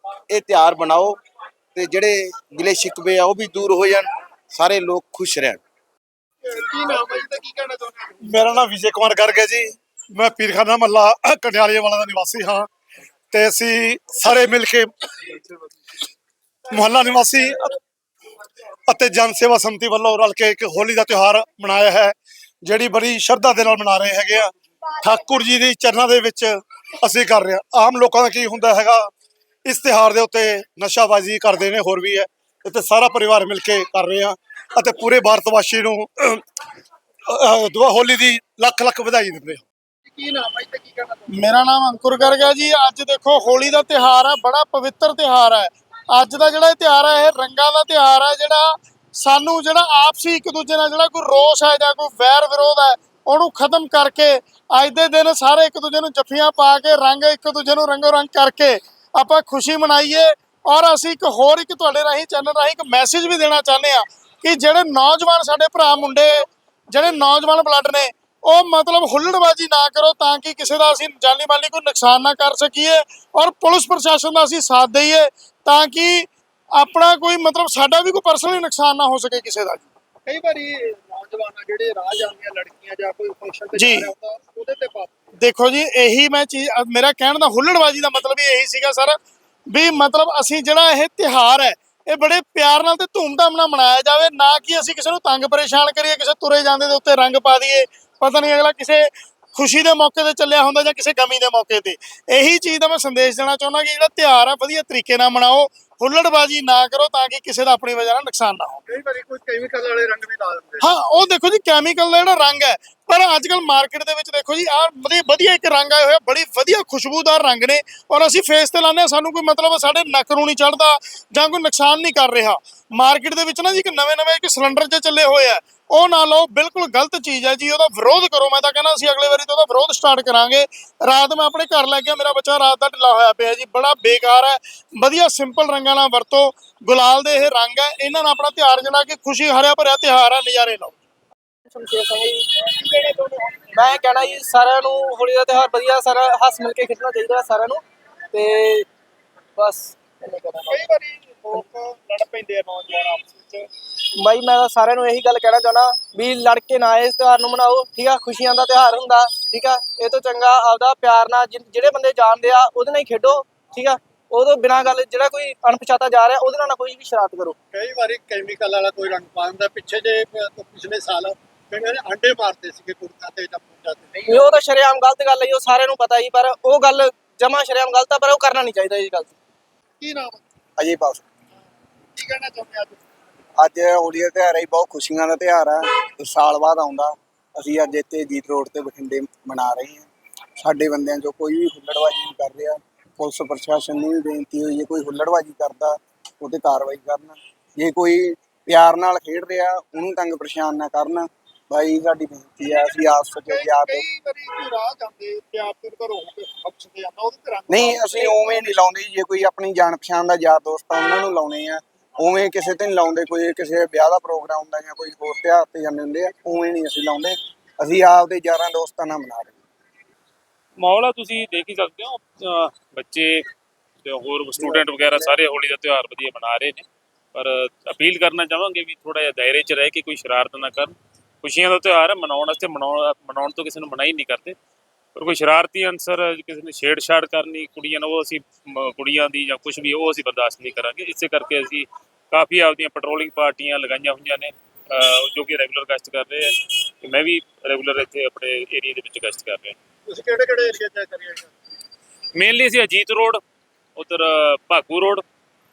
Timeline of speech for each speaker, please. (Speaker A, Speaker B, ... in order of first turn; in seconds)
Speaker A: 0.3-1.2, 1.7-5.6
Speaker B: 6.4-8.7, 40.1-41.2, 80.2-85.1, 108.9-110.8, 142.6-144.1, 150.7-153.7, 167.7-174.6, 180.0-180.4, 182.2-183.0, 203.4-208.6, 250.1-251.5
Speaker C: 8.2-12.7, 13.3-14.9, 16.7-17.8, 18.9-29.1, 29.6-36.4, 37.3-39.6
Speaker D: 41.3-79.8, 83.7-84.1, 85.4-89.2, 89.7-108.8, 110.8-140.9
Speaker E: 141.7-143.0, 143.7-147.8, 148.3-148.9, 149.6-150.9, 154.2-167.6, 174.2-179.3
Speaker F: 180.8-181.2, 183.6-204.0, 207.7-219.6, 224.6-225.3
Speaker G: 220.8-223.4, 224.0-234.6, 235.1-249.8, 252.3-253.4, 253.9-255.2